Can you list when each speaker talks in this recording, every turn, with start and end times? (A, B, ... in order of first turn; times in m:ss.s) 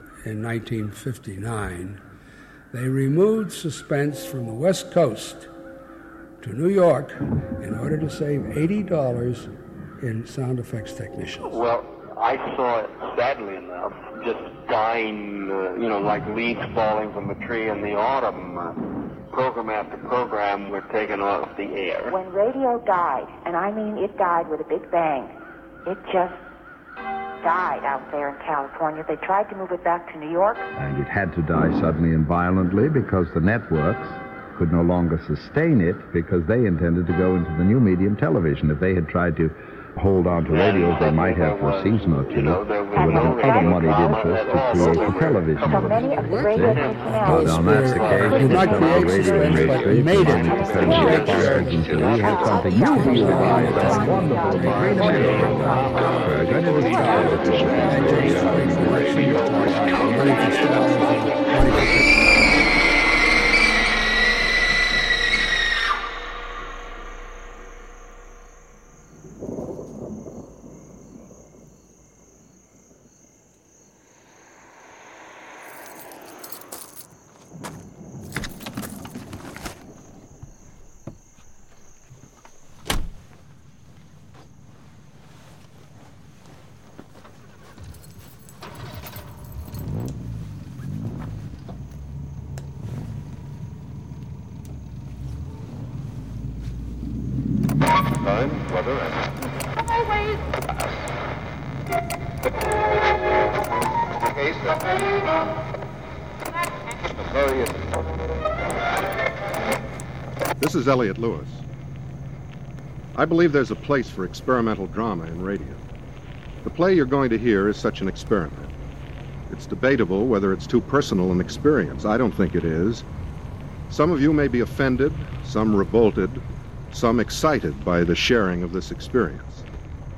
0:00.2-0:02.0 A
0:02.7-0:05.5 A
0:06.4-0:09.5 A
0:10.0-0:11.6 A
0:11.5-0:22.2 B
0:22.1-0:26.4 C
0:27.4-0:30.7 C
0:30.7-0:54.4 D
0:40.5-0:45.6 B
0:42.9-0:47.5 C
0:47.2-1:02.3 A
0:48.1-0:49.4 C
0:50.5-0:51.4 B
0:50.9-0:51.2 C
0:52.1-0:56.0 C
0:56.1-0:59.2 D
0:56.6-0:57.8 C
1:38.1-1:39.3 B
1:44.2-1:44.7 B
1:47.2-1:48.0 B
1:50.6-1:51.6 E
1:53.1-1:55.8 E
1:56.6-1:58.7 E
1:59.5-2:03.0 E
2:03.9-2:09.6 E